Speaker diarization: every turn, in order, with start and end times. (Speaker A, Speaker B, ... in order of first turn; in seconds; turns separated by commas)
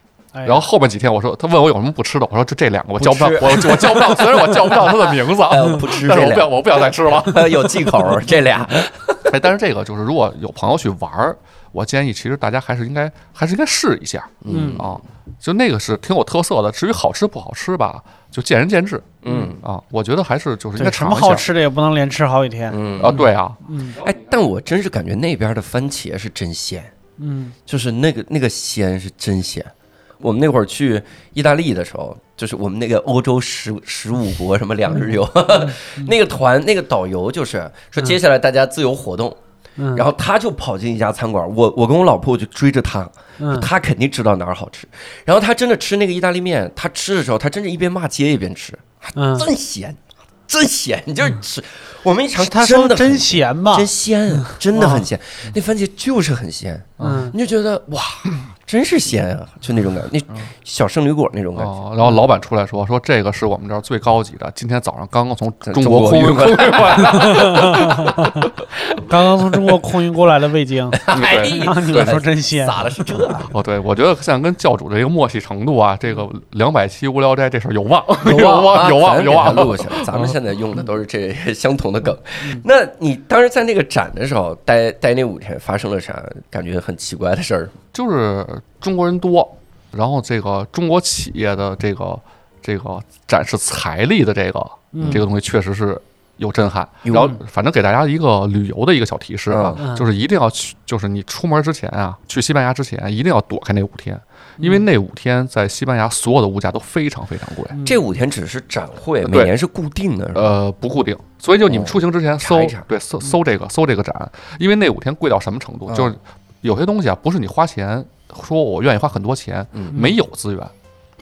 Speaker A: 0.3-0.7, Speaker B: 0.4-8.0, Speaker C: 3.0-9.5, Speaker B: 9.3-21.5, Speaker C: 14.4-15.0, Speaker A: 14.5-14.8, Speaker C: 19.2-19.6, Speaker A: 20.8-24.0, Speaker C: 22.7-23.2, Speaker B: 23.0-23.6, Speaker C: 24.0-26.9, Speaker A: 27.2-27.5, Speaker C: 27.6-39.4, Speaker A: 35.5-36.1, Speaker A: 39.8-40.0, Speaker C: 39.9-61.7, Speaker A: 43.4-43.7, Speaker A: 49.1-49.5, Speaker A: 52.4-53.9, Speaker A: 54.4-55.0, Speaker B: 57.0-57.3, Speaker A: 57.0-57.3, Speaker B: 61.5-68.1, Speaker C: 65.6-67.9, Speaker A: 67.1-68.5, Speaker A: 69.0-72.9, Speaker C: 70.9-73.5, Speaker B: 71.1-72.2, Speaker B: 73.5-80.3, Speaker C: 78.2-87.8, Speaker B: 87.9-107.8, Speaker A: 94.9-95.2, Speaker C: 97.0-97.3, Speaker C: 99.5-99.8, Speaker A: 99.8-100.1, Speaker A: 104.6-104.8, Speaker A: 107.7-108.0, Speaker C: 107.8-110.5, Speaker B: 109.2-109.5, Speaker B: 110.3-120.7, Speaker C: 111.7-112.8, Speaker C: 115.9-116.1, Speaker C: 119.7-120.0